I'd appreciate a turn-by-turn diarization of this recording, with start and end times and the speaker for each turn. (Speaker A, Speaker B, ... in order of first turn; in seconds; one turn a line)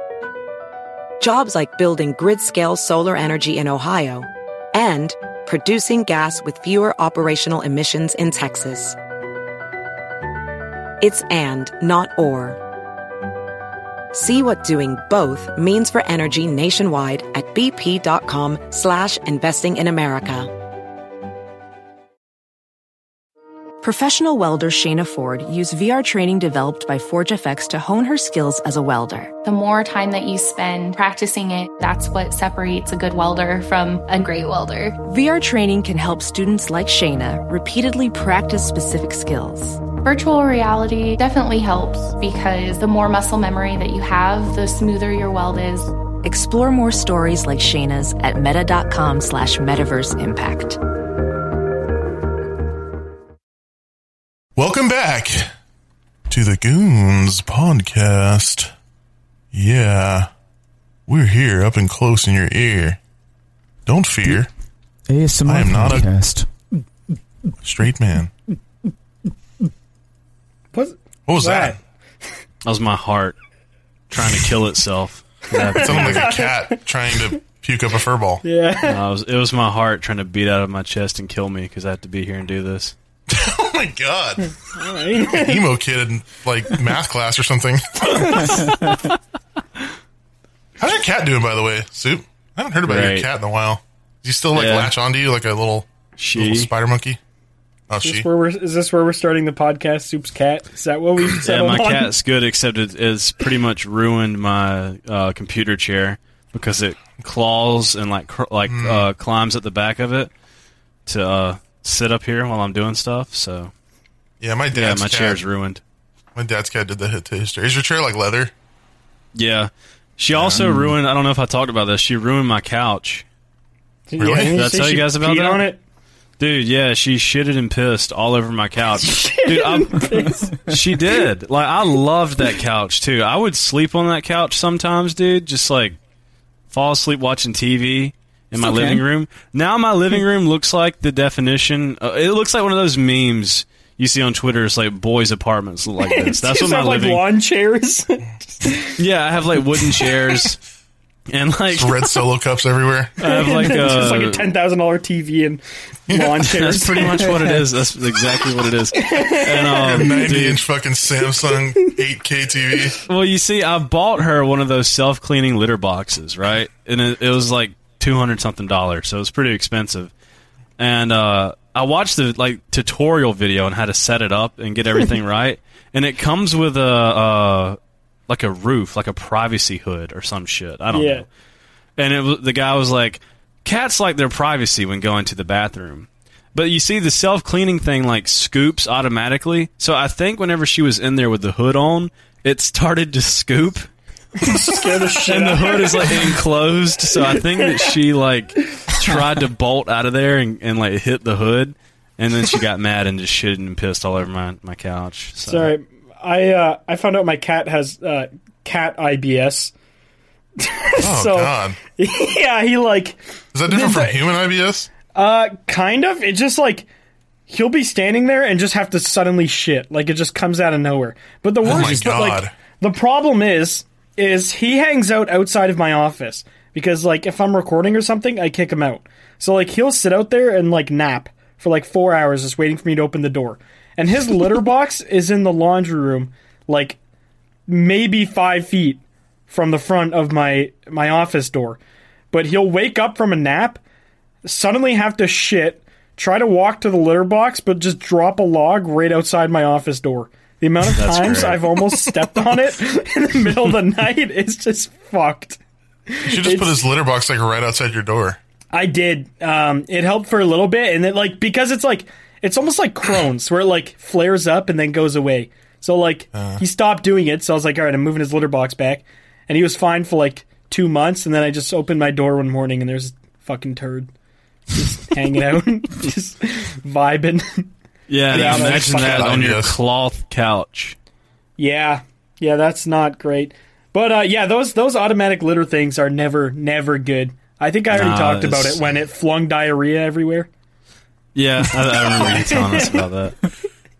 Speaker A: 1.2-9.0
Speaker A: 11.0-12.6
Speaker A: 14.1-20.5
Speaker B: 23.8-29.3
Speaker C: 29.4-35.0
Speaker B: 35.0-39.8
Speaker C: 39.9-45.9
Speaker B: 46.2-50.8
Speaker D: 54.6-55.5
Speaker D: 56.3-58.7
Speaker D: 59.5-60.3
Speaker D: 61.1-63.0
Speaker D: 63.9-64.5
Speaker E: 65.1-66.5
Speaker D: 65.5-66.1
Speaker D: 67.6-68.3
Speaker F: 70.7-71.8
Speaker D: 71.3-71.8
Speaker G: 72.7-73.4
Speaker G: 74.1-76.3
Speaker F: 75.7-76.8
Speaker D: 75.8-78.4
Speaker F: 78.4-79.0
Speaker G: 78.8-83.0
Speaker D: 83.3-84.5
Speaker F: 84.8-85.6
Speaker D: 85.3-88.7
Speaker D: 90.8-97.2
Speaker G: 92.9-93.3
Speaker G: 94.5-94.9
Speaker G: 96.2-96.7
Speaker D: 97.9-98.3
Speaker F: 98.0-102.1
Speaker G: 101.4-110.3
Speaker D: 108.7-109.1
Speaker G: 111.1-113.7
Speaker D: 114.4-115.4
Speaker G: 114.7-115.8
Speaker D: 116.3-118.5
Speaker G: 119.3-123.2
Speaker D: 120.3-120.7
Speaker E: 120.6-120.9
Speaker F: 124.1-125.8
Speaker D: 124.2-124.7
Speaker G: 124.5-125.7
Speaker G: 126.4-136.0
Speaker F: 129.0-131.0
Speaker G: 136.7-147.3
Speaker E: 138.6-139.1
Speaker F: 146.0-149.0
Speaker G: 149.0-150.6
Speaker G: 151.3-152.1
Speaker D: 151.7-153.2
Speaker G: 153.2-154.5
Speaker F: 153.2-157.5
Speaker G: 156.4-160.7
Speaker F: 158.9-160.1
Speaker D: 159.7-163.0
Speaker G: 163.1-170.1
Speaker G: 170.8-181.3
Speaker F: 180.9-181.3
Speaker G: 182.0-193.9
Speaker F: 194.4-196.4
Speaker G: 195.3-205.7
Speaker F: 205.4-209.7
Speaker F: 210.6-214.3
Speaker D: 211.0-211.8
Speaker D: 213.5-214.9
Speaker F: 215.1-216.9
Speaker F: 217.5-237.0
Speaker D: 221.6-222.5
Speaker F: 237.7-241.8
Speaker F: 242.3-243.8
Speaker F: 244.4-255.6
Speaker G: 250.9-251.9
Speaker F: 256.1-256.8
Speaker D: 256.3-258.4
Speaker F: 258.7-274.1
Speaker D: 266.3-266.6
Speaker F: 274.8-277.7
Speaker G: 278.1-281.0
Speaker F: 278.3-279.4
Speaker D: 278.3-279.8
Speaker F: 281.6-290.5
Speaker G: 287.9-288.8
Speaker G: 291.4-293.4
Speaker F: 292.2-293.0